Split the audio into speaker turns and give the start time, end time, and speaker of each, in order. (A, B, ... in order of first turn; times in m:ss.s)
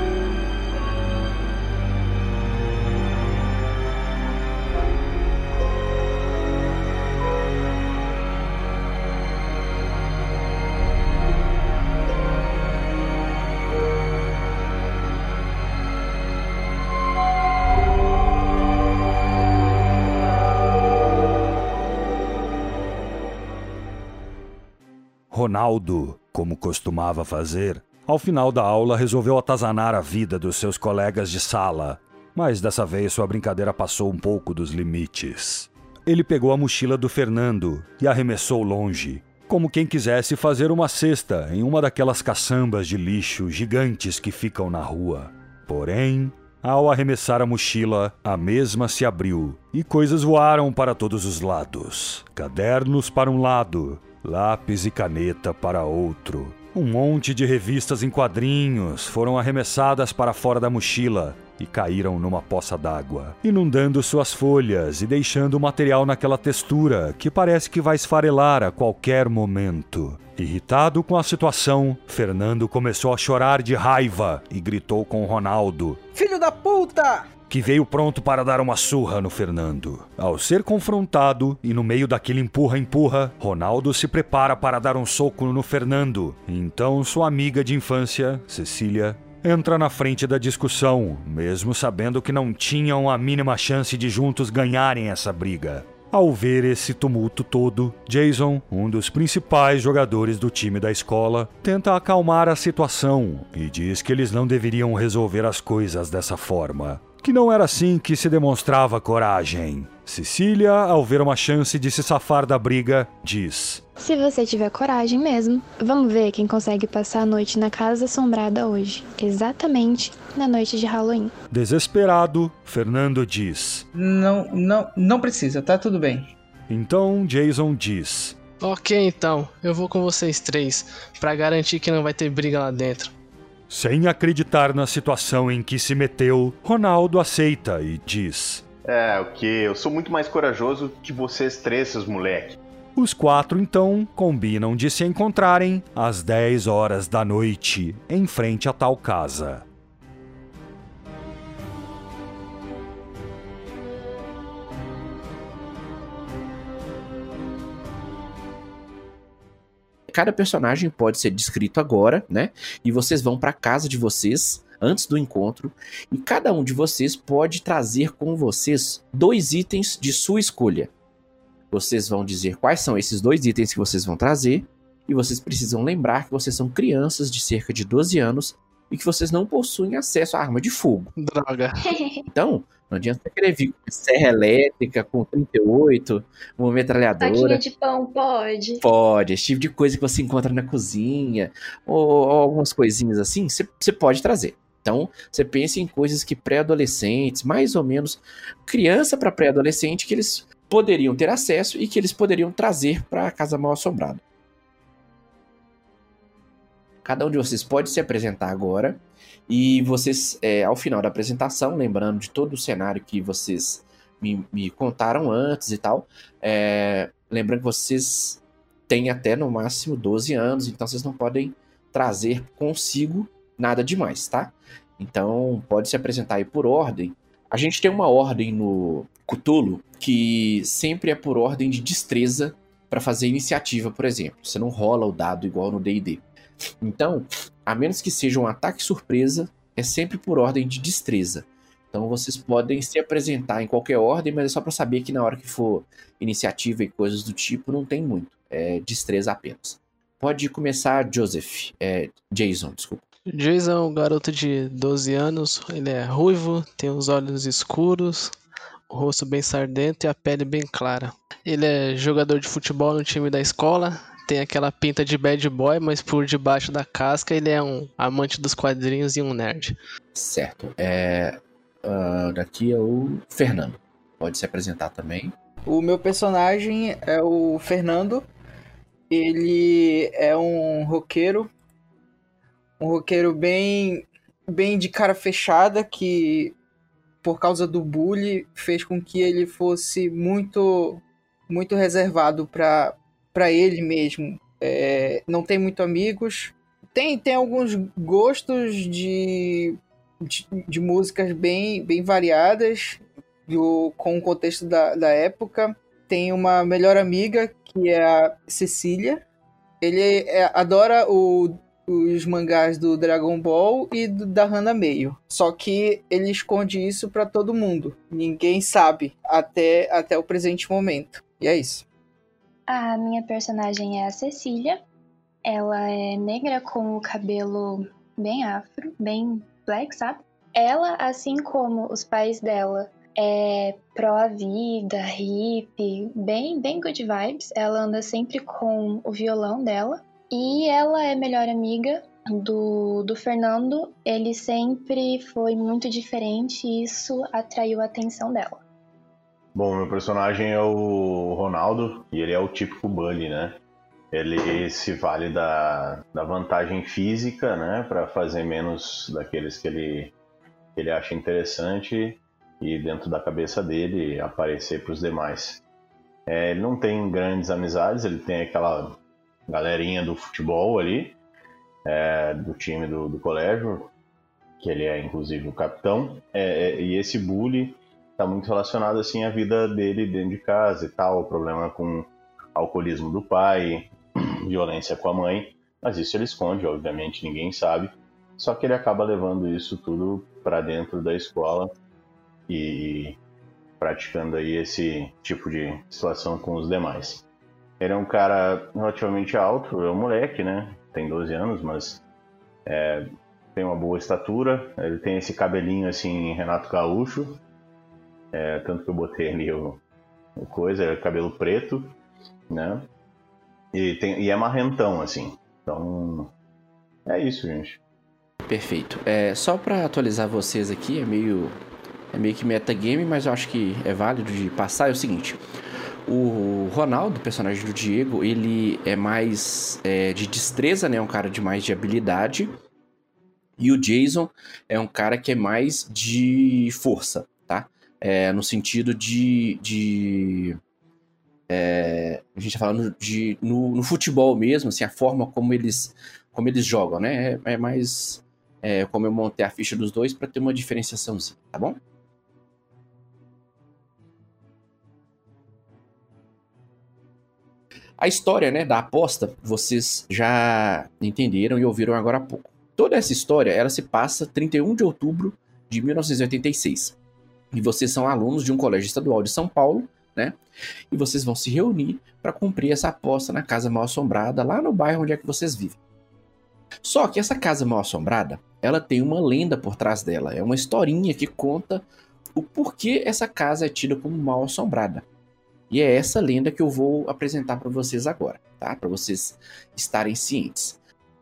0:25.3-1:16.0 A
1:16.1-1:17.3 B
1:17.5-1:53.8 A
1:54.0-2:01.3 C
2:01.5-2:03.9 A
2:04.0-2:06.3 B
2:06.7-2:08.4 A
2:08.6-2:13.1 D
2:13.7-2:18.6 A
2:18.9-2:22.6 E
2:23.0-2:29.6 A
2:40.1-2:50.9 F
2:51.7-3:01.1 F
3:01.2-3:01.9 D
3:01.9-3:02.2 C
3:02.3-3:07.6 F
3:07.2-3:08.8 C
3:08.8-3:24.2 F
3:27.0-3:56.2 F
3:56.8-4:13.0 F
4:13.3-4:18.3 D
4:18.9-4:29.8 D
4:30.1-4:35.4 F
4:35.7-4:38.2 B
4:39.1-4:41.5 B
4:42.8-4:46.6 B
4:47.2-5:09.2 B
5:09.8-5:21.8 B
5:22.7-5:24.8 C
5:25.4-5:48.6 C
5:49.6-5:53.6 E
5:54.1-6:00.2 E
6:00.8-6:05.6 E
6:06.3-6:11.2 E
6:11.8-6:13.9 E
6:14.6-6:31.7 E
6:32.5-6:33.2 E
6:33.8-6:37.2 E
6:37.8-6:42.0 E
6:42.7-6:47.4 E
6:48.3-6:49.8 E
6:50.4-6:52.0 E
6:52.5-6:52.9 E
6:53.7-6:56.3 E
6:57.1-6:57.8 E
6:58.5-7:01.6 F
7:02.1-7:05.4 F
7:06.1-7:12.5 F
7:13.6-7:20.6 F
7:21.5-7:31.8 F
7:38.0-7:47.0 F
7:47.5-7:50.4 F
7:50.9-7:55.8 F
7:56.8-8:05.1 F
8:05.7-8:10.8 F